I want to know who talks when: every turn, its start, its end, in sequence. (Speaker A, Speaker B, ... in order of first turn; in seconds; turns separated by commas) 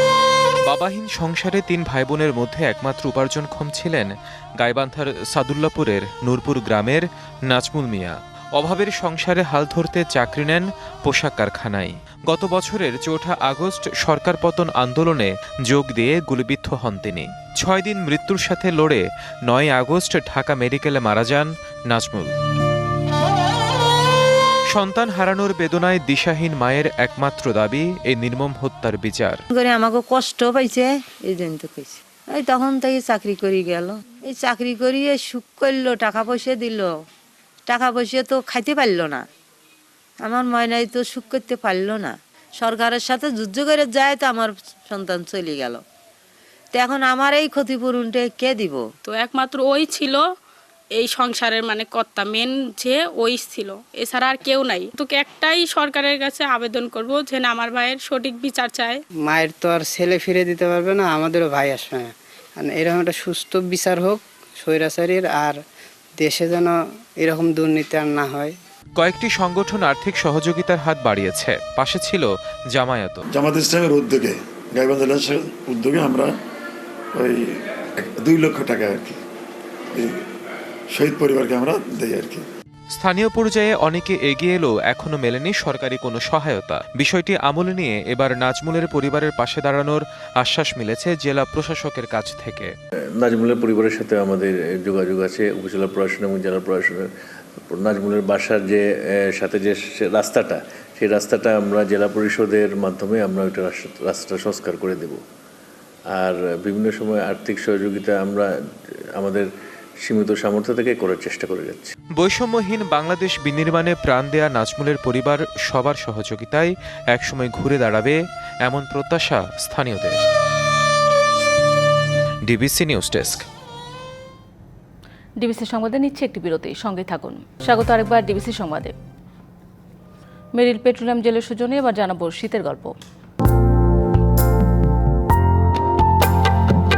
Speaker A: 0.7-22.3, Speaker A: 24.7-29.4, Speaker B: 29.5-36.9, Speaker B: 37.7-39.3, Speaker B: 40.2-45.8, Speaker B: 46.7-48.8, Speaker C: 49.0-50.2, Speaker C: 51.0-59.0, Speaker D: 59.2-65.6, Speaker D: 66.2-68.5, Speaker A: 69.0-73.3, Speaker E: 73.3-76.3, Speaker E: 77.2-79.2, Speaker E: 79.9-80.2, Speaker E: 80.9-82.5, Speaker A: 82.9-92.7, Speaker F: 93.2-97.1, Speaker F: 97.7-105.2, Speaker F: 106.2-108.5, Speaker F: 109.2-109.5, Speaker F: 110.0-111.9, Speaker A: 112.2-120.2, Speaker A: 122.5-123.4, Speaker G: 125.4-128.9, Speaker G: 130.6-132.9